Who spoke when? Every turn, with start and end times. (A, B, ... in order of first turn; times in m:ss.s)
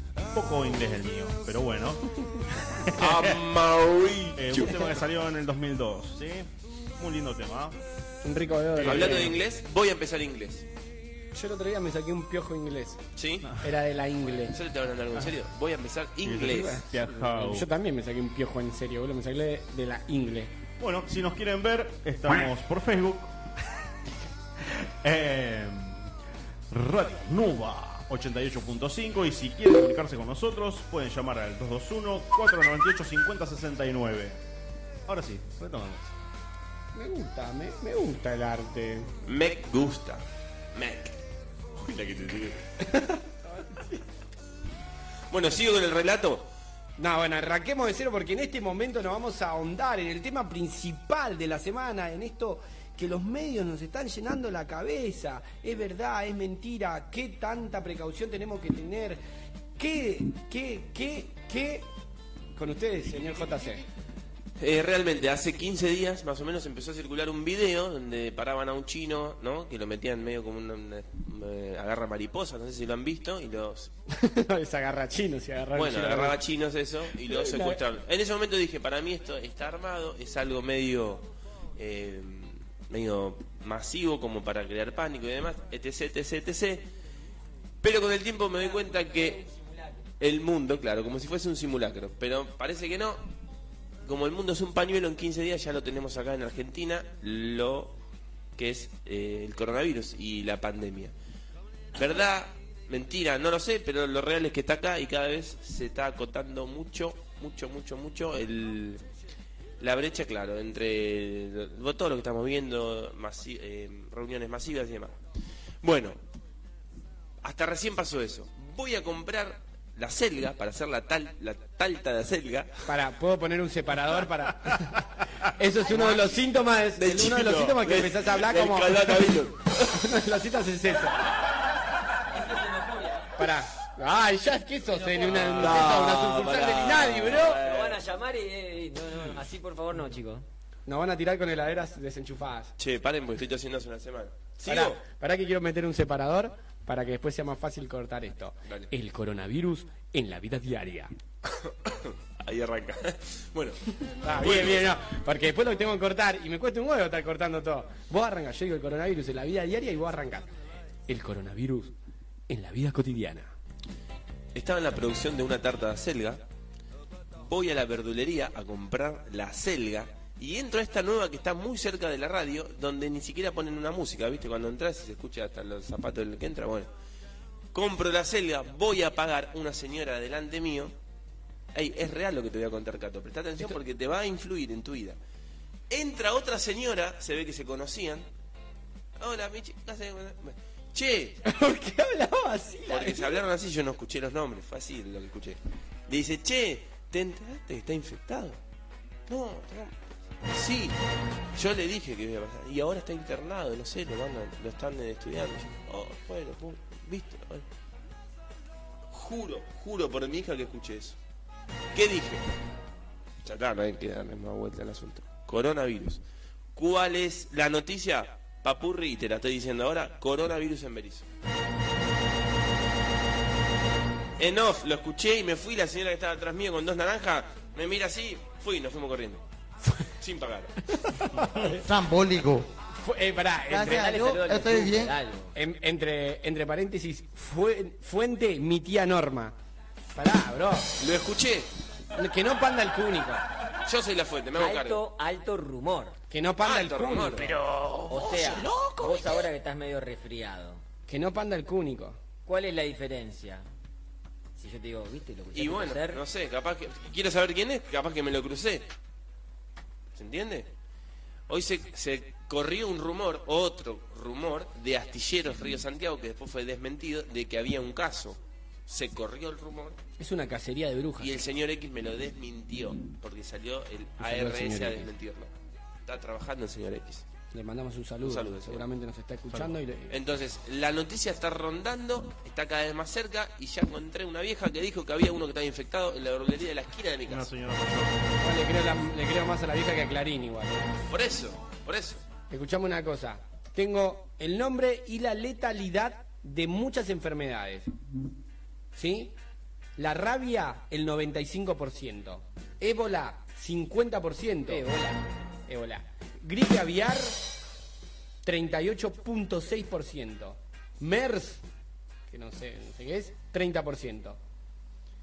0:00.3-0:02.1 A
0:02.6-0:03.4 A
0:03.0-0:05.0 B
0:04.3-0:07.8 A
0:08.2-0:09.3 C
0:08.7-0:09.3 A
0:08.8-0:10.6 B
0:11.3-0:13.0 C
0:13.2-0:13.5 B
0:13.4-0:13.7 A
0:13.6-0:14.6 C
0:14.5-0:16.8 B
0:16.2-0:17.7 A
0:16.5-0:20.5 C
0:20.8-0:23.3 A
0:24.6-0:26.1 A
0:26.7-0:34.4 A
0:35.0-0:36.1 A
0:36.9-0:39.1 C
0:39.2-0:41.2 B
0:41.7-0:42.6 B
0:42.8-0:44.0 C
0:45.3-0:46.5 B
0:47.0-0:59.2 C
0:59.8-1:01.9 C
1:02.6-1:03.8 C
1:04.6-1:13.9 B
1:14.1-1:16.4 C
1:15.7-1:26.8 B
1:17.2-1:17.8 C
1:27.8-1:29.4 B
1:28.5-1:30.0 D
1:30.2-1:33.2 B
1:34.0-1:38.0 B
1:38.6-1:41.1 B
1:41.9-1:49.0 B
1:49.8-1:55.2 B
1:55.8-1:56.2 B
1:57.4-2:02.8 B
2:02.9-2:09.3 C
2:05.9-2:06.3 B
2:07.0-2:09.9 B
2:09.9-2:11.2 C
2:12.3-2:13.4 D
2:13.4-2:17.6 C
2:14.9-2:16.0 D
2:15.2-2:18.0 B
2:17.6-2:20.4 D
2:20.8-2:22.7 C
2:22.8-2:25.0 B
2:24.6-2:31.1 C
2:31.5-2:34.9 B
2:34.1-2:40.5 C
2:41.1-2:41.9 C
2:42.5-2:43.5 C
2:44.5-2:46.4 B
2:47.4-2:56.9 B
2:57.7-3:00.9 B
3:01.7-3:05.2 B
3:05.9-3:08.2 B
3:09.2-3:11.4 B
3:11.4-3:13.4 C
3:12.9-3:18.6 B
3:19.3-3:19.9 B
3:20.5-3:21.0 B
3:21.5-3:27.6 B
3:29.1-3:31.2 B
3:31.9-3:32.5 B
3:33.4-3:36.2 B
3:36.7-3:41.2 B
3:44.4-3:49.4 B
3:50.2-3:50.8 B
3:51.0-3:51.8 C
3:51.8-3:52.7 E
3:52.9-3:54.3 C
3:53.7-3:55.1 E
3:53.8-3:55.5 D
3:55.5-3:59.5 C
4:00.1-4:00.9 C
4:01.0-4:01.7 B
4:02.1-4:03.5 C
4:03.8-4:05.0 B
4:04.6-4:06.2 D
4:06.3-4:07.6 C
4:06.6-4:08.9 B
4:08.1-4:10.8 D
4:11.1-4:12.2 C
4:12.4-4:13.6 D
4:14.6-4:16.2 D
4:15.5-4:18.9 B
4:20.1-4:20.7 B
4:21.5-4:30.0 B
4:30.2-4:31.4 C
4:31.2-4:35.5 B
4:34.2-4:35.1 C
4:36.0-4:37.2 B
4:37.5-4:40.2 C
4:38.2-4:38.8 B
4:40.1-4:47.5 B
4:47.2-4:48.2 A
4:48.4-4:50.9 C
4:51.1-4:52.2 B
4:52.5-4:57.9 C
4:58.9-4:59.3 C
5:00.0-5:04.9 C
5:04.6-5:05.2 D
5:05.7-5:07.5 C
5:08.4-5:11.6 C
5:12.3-5:14.4 C